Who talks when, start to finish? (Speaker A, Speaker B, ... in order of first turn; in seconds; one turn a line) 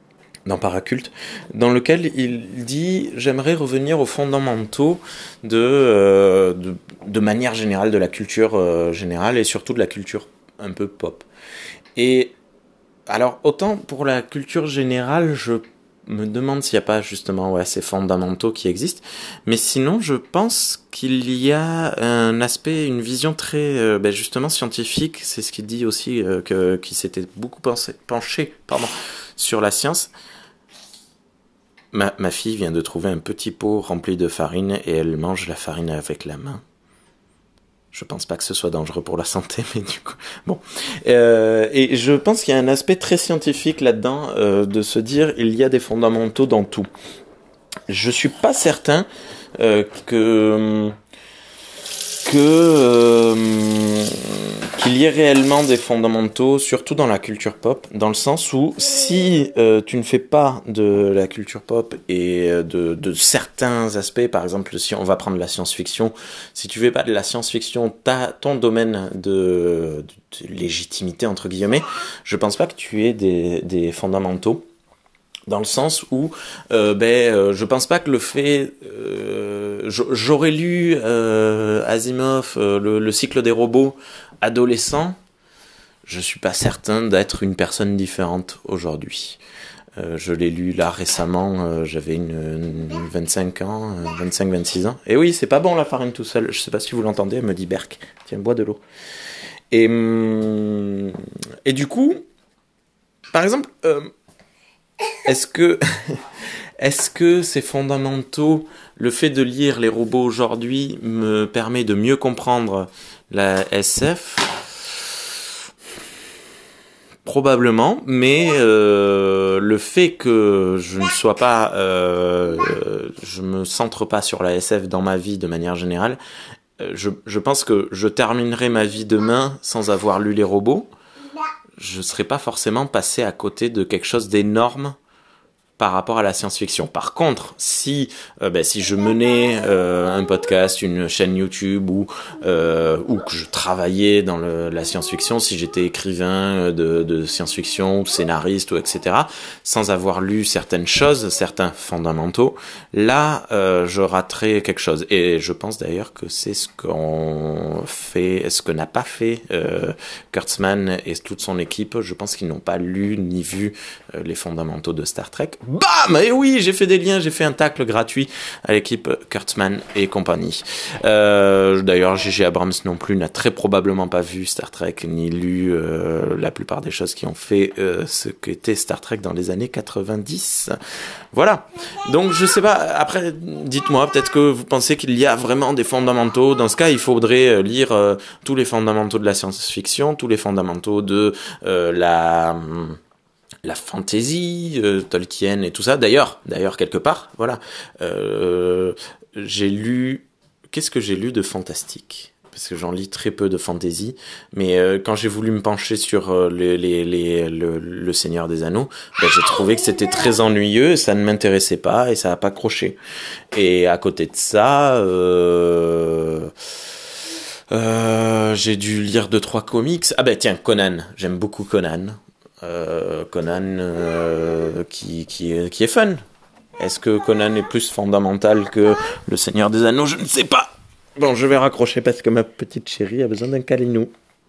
Speaker A: 0.5-11.2
Speaker A: 11.9-12.3
Speaker A: 13.1-30.1
Speaker A: 31.9-36.6
Speaker A: 37.9-46.9
Speaker A: 47.9-50.9
Speaker A: 52.2-74.6
Speaker A: 75.5-85.2
Speaker A: 86.0-89.4
Speaker A: 90.0-98.8
Speaker A: 99.7-102.2
Speaker A: 103.3-104.1
Speaker A: 105.2-106.2
Speaker A: 106.8-114.9
Speaker A: 117.2-126.2
Speaker A: 126.8-130.9
Speaker A: 131.8-134.9
Speaker A: 135.8-180.7
Speaker A: 181.3-193.0
Speaker A: 193.6-213.0
Speaker A: 213.5-216.5
Speaker A: 217.7-226.2
Speaker A: 226.8-234.1